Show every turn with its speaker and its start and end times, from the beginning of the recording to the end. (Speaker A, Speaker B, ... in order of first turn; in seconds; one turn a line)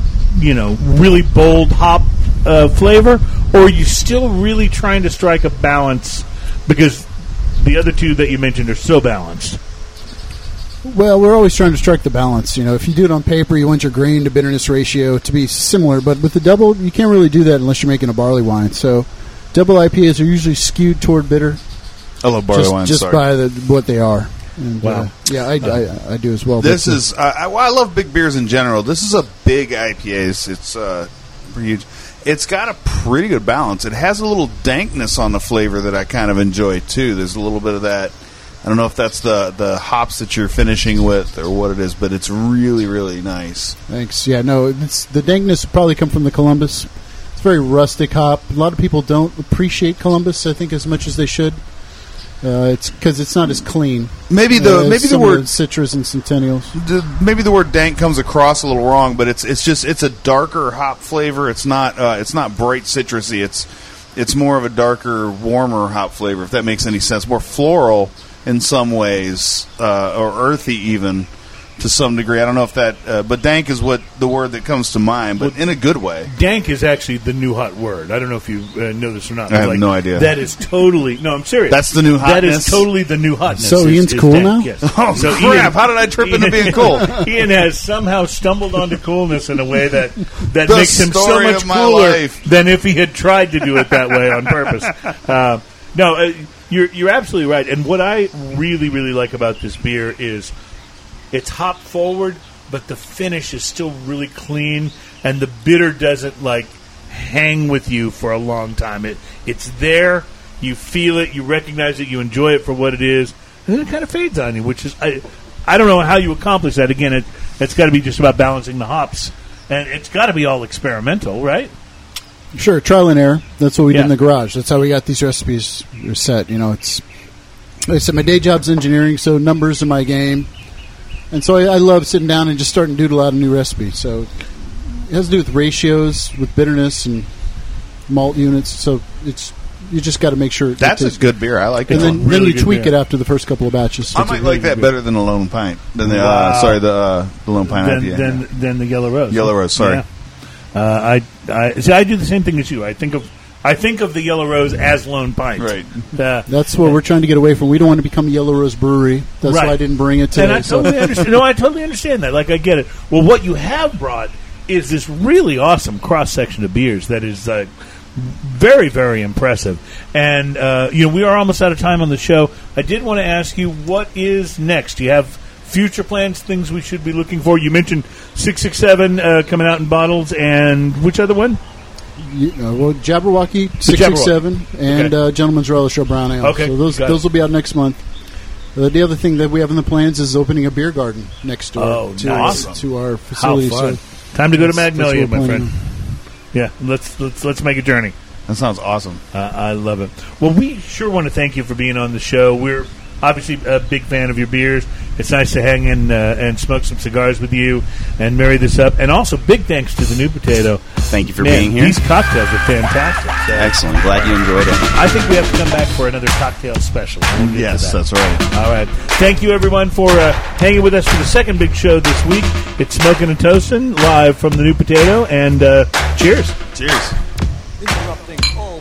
Speaker A: 0.3-7.1
Speaker A: 7.6-9.6
Speaker B: 10.8-21.6
Speaker C: 22.2-23.2
Speaker B: 22.5-27.0
Speaker A: 24.8-25.8
Speaker C: 26.6-43.8
Speaker B: 43.9-51.6
Speaker B: 52.4-56.8
Speaker C: 54.3-55.5
Speaker C: 56.7-76.3
Speaker A: 75.4-75.6
Speaker A: 76.2-100.5
Speaker C: 79.5-80.3
Speaker C: 81.7-82.8
Speaker B: 83.5-84.9
Speaker C: 84.9-87.3
Speaker C: 90.6-92.4
Speaker A: 101.3-121.7
Speaker B: 122.5-127.0
Speaker B: 127.9-130.5
Speaker B: 131.3-137.3
Speaker B: 138.1-144.9
Speaker C: 140.8-142.2
Speaker A: 141.9-143.0
Speaker C: 144.1-148.4
Speaker A: 146.0-146.8
Speaker A: 147.6-150.1
Speaker C: 149.3-150.0
Speaker A: 150.7-156.5
Speaker C: 155.6-155.9
Speaker B: 156.5-161.1
Speaker A: 159.4-181.6
Speaker B: 182.2-188.0
Speaker A: 183.8-185.1
Speaker A: 186.4-187.2
Speaker B: 188.7-194.0
Speaker A: 191.8-192.7
Speaker C: 192.2-192.8
Speaker A: 193.3-195.7
Speaker B: 194.5-195.8
Speaker A: 196.5-198.2
Speaker C: 198.5-199.2
Speaker A: 199.3-214.3
Speaker D: 211.1-212.0
Speaker D: 213.6-214.9
Speaker A: 214.9-226.6
Speaker C: 217.4-218.4
Speaker C: 226.7-227.2